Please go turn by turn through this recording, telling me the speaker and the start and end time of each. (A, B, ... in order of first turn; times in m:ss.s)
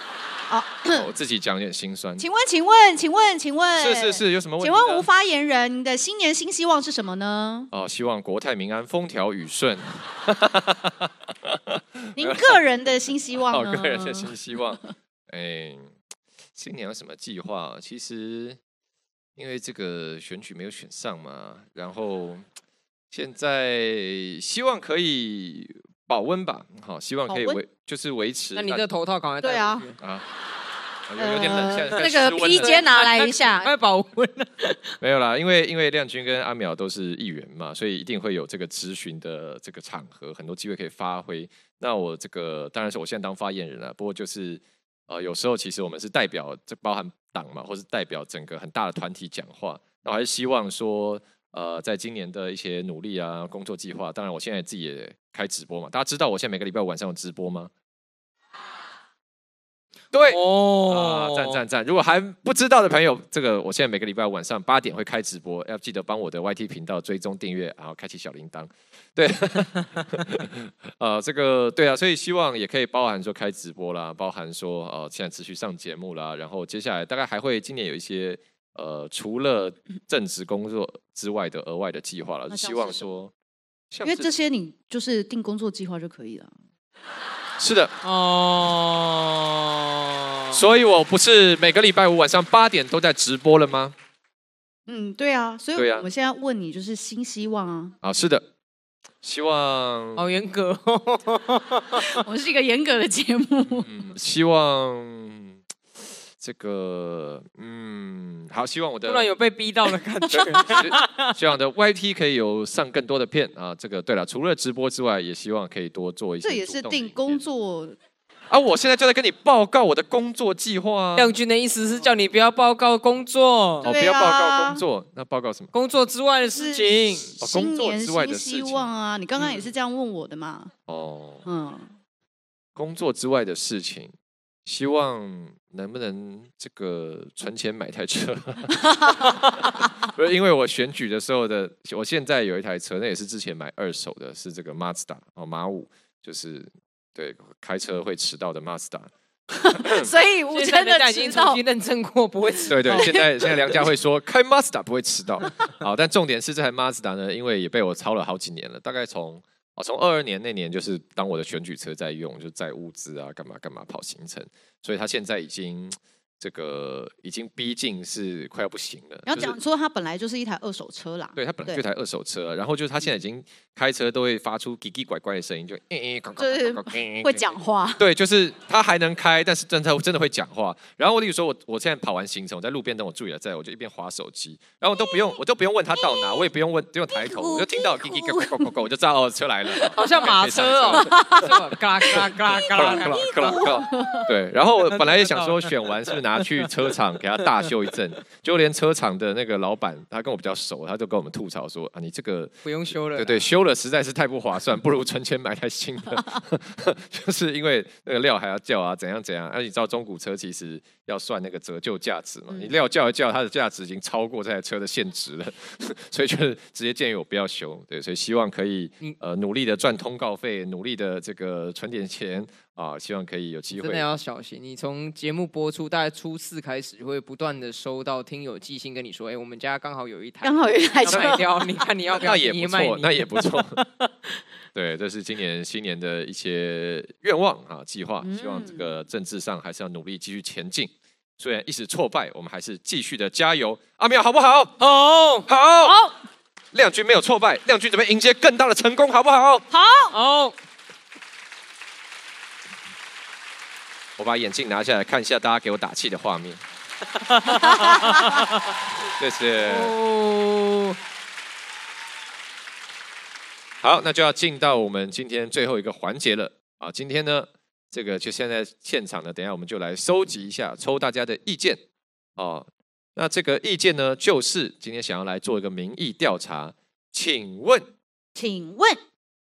0:00.5-0:01.1 A
0:00.9-0:02.2 B
0:02.2-0:07.7 A
0:03.8-0:05.0 B
0:07.7-0:12.6 B
0:12.2-0:14.3 A
0:13.5-0:15.9 B
0:16.6-0:18.6 B
0:19.4-0:22.4 B
0:23.1-0:28.8 B
0:27.3-0:27.6 A
0:28.5-0:30.0 C
0:29.4-0:29.9 A
0:30.0-0:30.2 B
0:31.1-0:32.8 B
0:31.2-0:33.7 A
0:32.0-0:34.9 C
0:35.0-0:57.7 B
1:00.1-1:23.3 B
1:00.3-1:01.6 C
1:22.5-1:23.1 A
1:23.9-1:24.3 B
1:24.0-1:26.5 A
1:27.6-1:27.9 B
1:28.0-1:30.6 C
1:30.5-1:33.9 B
1:34.9-1:37.9 A
1:35.8-1:36.1 B
1:38.0-1:38.4 B
1:39.2-1:40.2 B
1:40.2-1:42.2 C
1:42.0-1:43.9 A
1:43.8-1:45.6 B
1:46.4-1:49.3 B
1:49.0-1:51.3 C
1:50.3-1:57.4 B
1:56.4-1:58.0 A
1:58.5-2:01.3 B
2:01.2-2:03.9 C
2:03.8-2:05.7 B
2:03.8-2:04.8 A
2:05.7-2:07.3 C
2:06.5-2:10.7 A
2:07.4-2:08.9 B
2:10.9-2:11.4 B
2:11.4-2:11.9 A
2:12.8-2:14.1 B
2:14.6-2:18.8 B
2:20.0-2:29.1 B
2:29.7-2:31.6 A
2:29.8-2:30.1 B
2:30.5-2:33.1 C
2:32.7-2:49.6 B
2:32.8-2:33.4 A
2:49.2-2:51.8 A
2:51.4-3:11.2 B
2:56.4-2:58.0 A
3:05.0-3:05.2 A
3:05.9-3:06.4 A
3:07.1-3:08.7 A
3:09.9-3:14.1 C
3:11.0-3:11.5 A
3:12.1-3:44.0 B
3:12.7-3:14.3 A
3:14.8-3:15.7 C
3:22.6-3:23.4 C
3:43.7-3:53.9 C
3:50.4-3:51.5 A
3:51.1-3:51.4 B
3:52.1-3:53.8 B
3:54.7-4:04.7 B
3:58.2-3:58.9 A
4:04.8-4:05.5 C
4:05.5-4:06.0 B
4:05.8-4:06.1 A
4:06.7-4:09.6 B
4:09.7-4:10.1 A
4:10.1-4:10.5 C
4:14.2-4:16.6 B
4:17.3-4:18.4 C
4:17.7-4:18.3 A
4:19.1-4:19.9 B
4:19.6-4:21.0 C
4:23.8-4:31.8 B
4:32.4-4:37.9 B
4:38.3-4:39.0 A